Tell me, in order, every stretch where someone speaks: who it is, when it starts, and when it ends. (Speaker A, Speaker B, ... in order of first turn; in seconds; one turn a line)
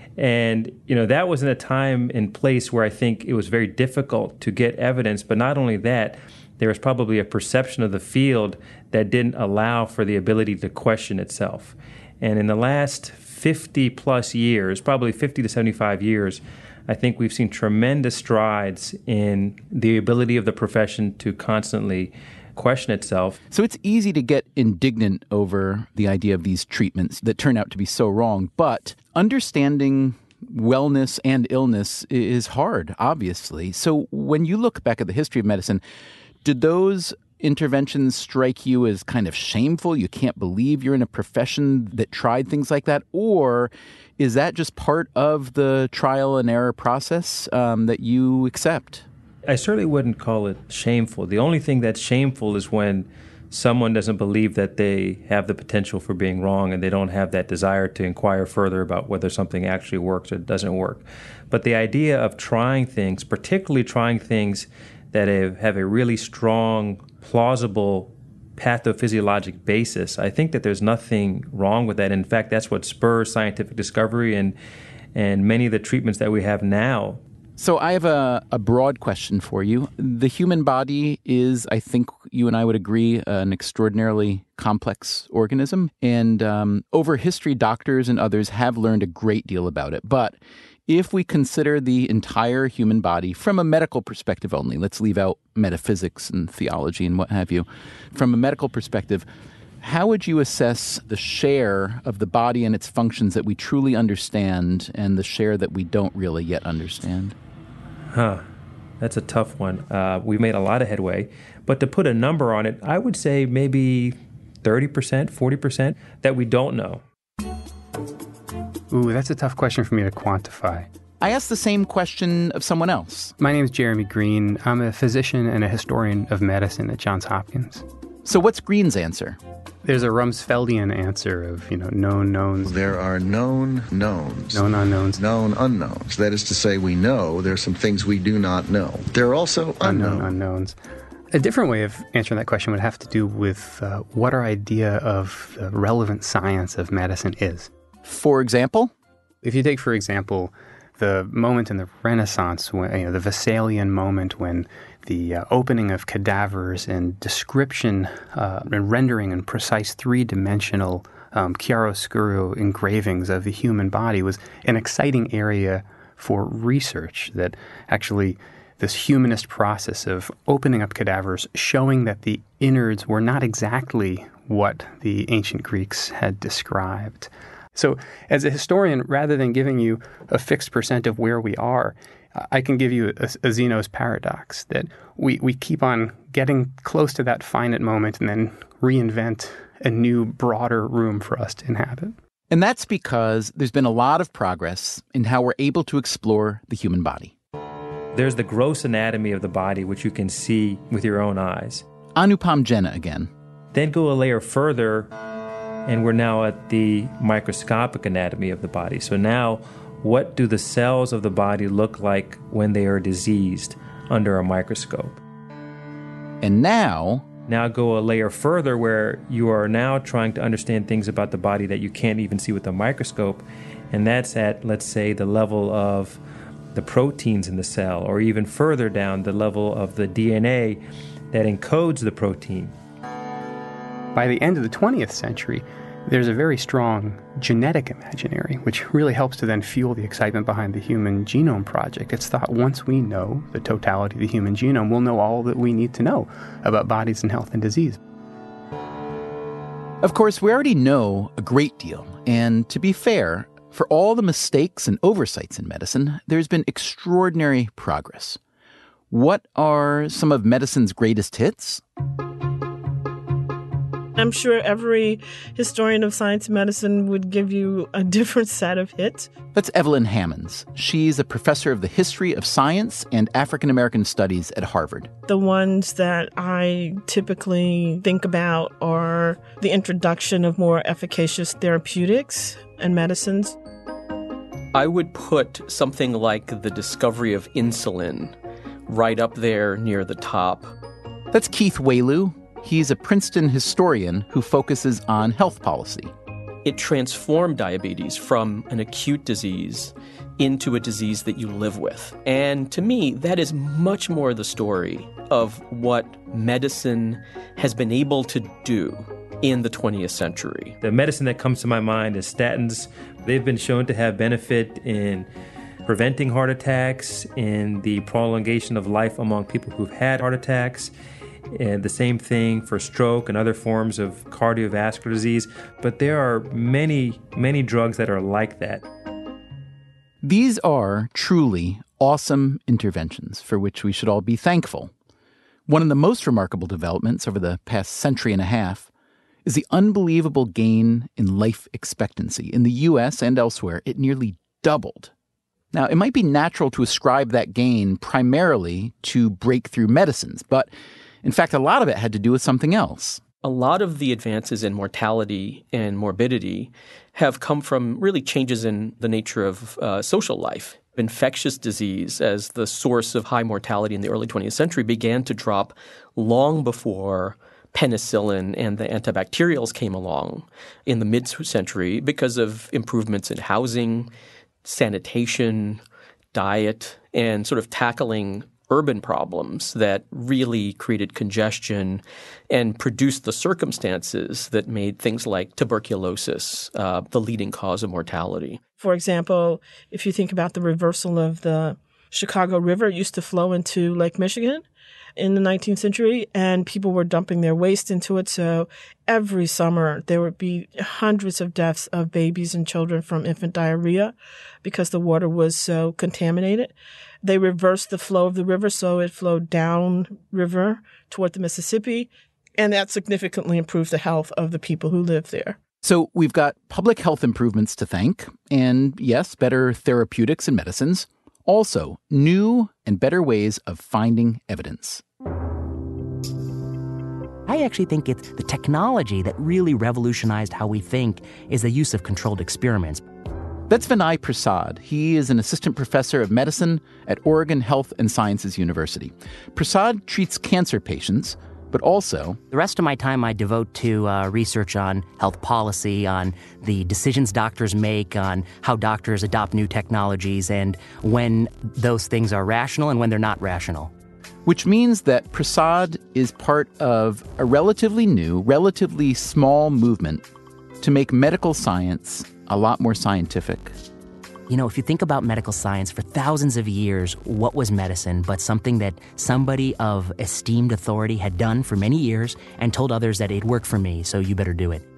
Speaker A: 0.2-23.4
Speaker B: 23.5-35.8
Speaker B: 36.4-49.0
Speaker A: 49.5-74.5
Speaker A: 75.1-77.2
Speaker B: 77.6-90.4
Speaker B: 90.9-99.2
Speaker B: 99.8-107.3
Speaker A: 108.1-108.4
Speaker A: 109.0-117.0
Speaker C: 118.9-120.9
Speaker B: 121.2-123.3
Speaker C: 123.4-127.8
Speaker B: 128.2-129.4
Speaker C: 129.8-132.8
Speaker D: 132.6-140.3
Speaker C: 134.5-135.2
Speaker C: 139.8-140.8
Speaker C: 141.3-147.7
Speaker B: 148.0-148.9
Speaker C: 149.4-192.2
Speaker B: 192.5-197.3
Speaker A: 198.1-201.8
Speaker B: 202.2-203.3
Speaker A: 203.7-205.1
Speaker A: 205.8-215.2
Speaker B: 216.4-217.2
Speaker A: 217.5-226.2
Speaker A: 226.7-230.8
Speaker A: 231.3-232.7
Speaker C: 234.1-248.0
Speaker B: 250.0-258.4
Speaker B: 259.1-261.8
Speaker E: 264.2-269.3
Speaker B: 269.5-275.1
Speaker E: 275.3-283.5
Speaker F: 284.7-288.3
Speaker F: 288.9-290.7
Speaker B: 291.3-296.1
Speaker F: 296.6-310.8
Speaker A: 310.8-315.3
Speaker A: 315.9-320.9
Speaker A: 321.5-328.8
Speaker B: 330.2-334.9
Speaker B: 335.7-338.9
Speaker B: 339.4-345.1
Speaker B: 345.7-350.7
Speaker B: 351.2-353.2
Speaker F: 353.4-374.1
Speaker F: 374.6-375.8
Speaker F: 376.3-388.6
Speaker E: 388.8-394.6
Speaker E: 395.2-415.6
Speaker B: 415.8-425.0
Speaker G: 427.4-433.0
Speaker B: 433.7-442.4
Speaker G: 442.5-453.9
Speaker B: 454.4-460.2
Speaker B: 460.8-463.7
Speaker G: 464.5-474.8